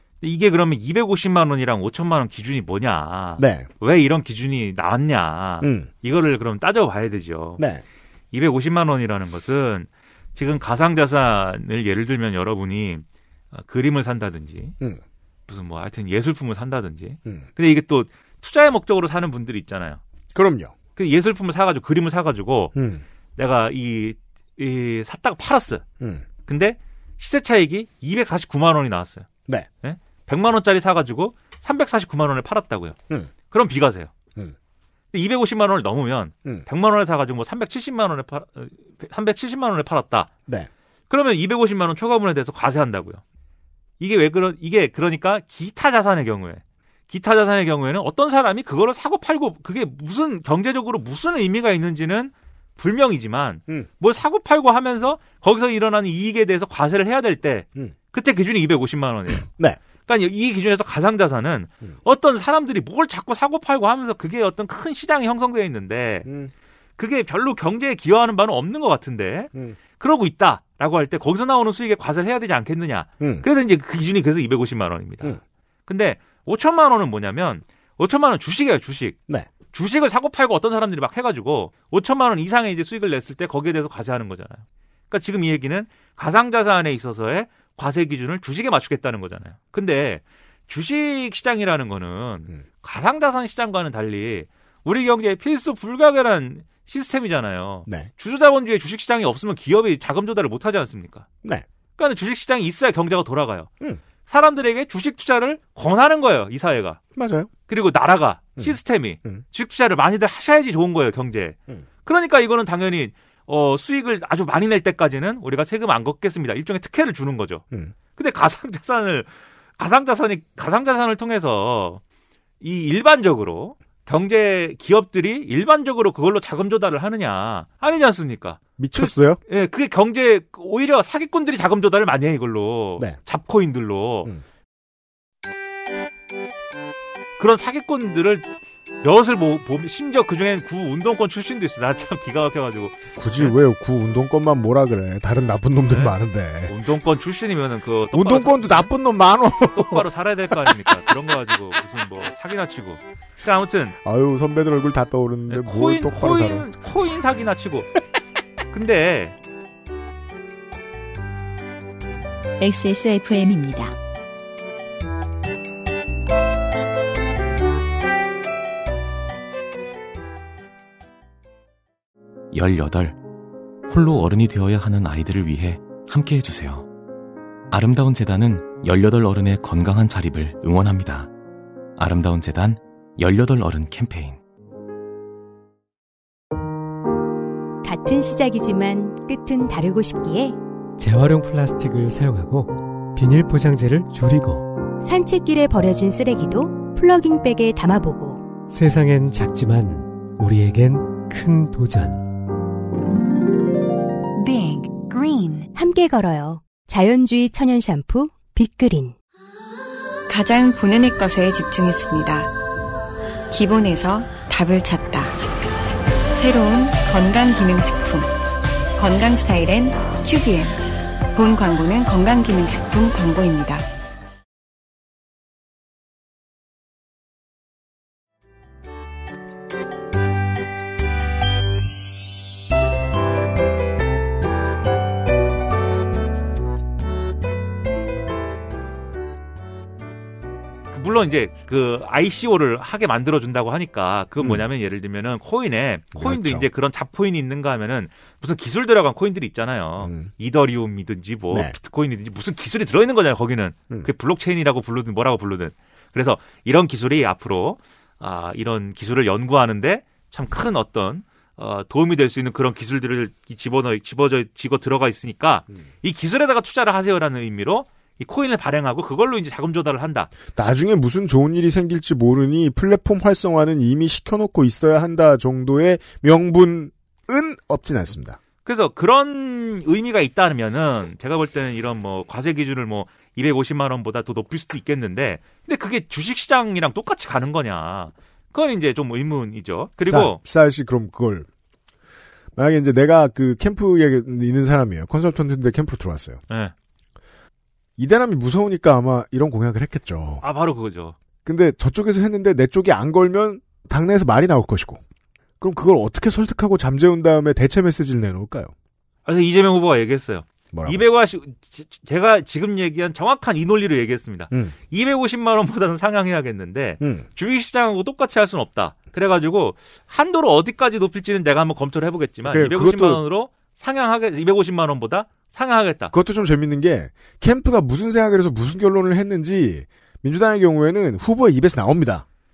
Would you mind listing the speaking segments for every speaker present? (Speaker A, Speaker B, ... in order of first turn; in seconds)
Speaker A: 0.2-7.6, 8.3-14.7, 15.5-20.0, 20.9-22.7, 23.4-25.8, 26.4-29.2, 29.8-32.9, 33.5-34.1, 35.1-40.3, 41.1-43.2, 44.0-59.5, 60.0-66.3, 67.0-101.2, 102.0-103.7, 104.3-107.0, 107.7-122.0, 122.6-134.3, 137.4-138.5, 139.0-143.5, 145.9-146.1, 146.7-148.8, 149.7-153.9, 155.5-157.9, 158.7-159.3, 240.9-270.3, 278.6-290.4, 300.4-301.1, 309.2-326.1
Speaker B: 3.4-3.7, 5.6-5.9, 7.6-7.8, 20.3-20.7, 22.7-23.0, 26.0-26.2, 59.5-59.8, 66.2-66.5, 69.5-69.8, 73.2-73.5, 107.1-107.5, 108.6-109.4, 128.8-129.4, 143.1-146.7, 148.1-150.0, 154.0-156.7, 246.1-246.7, 250.0-250.3, 270.5-278.4, 290.1-291.4, 292.6-296.4, 298.0-300.4, 301.4-305.0, 305.6-308.7, 310.7-311.1, 317.0-317.3, 322.5-323.2, 326.1-332.2
Speaker C: 162.6-163.9, 204.4-205.6
Speaker D: 172.5-173.2, 173.9-176.9, 177.7-181.3, 182.0-184.4
Speaker E: 187.8-190.6, 195.0-198.5, 205.7-209.2
Speaker F: 191.0-194.7, 198.7-202.3
Speaker G: 210.3-212.5, 213.5-215.4, 216.3-218.3, 219.0-220.8, 221.3-223.8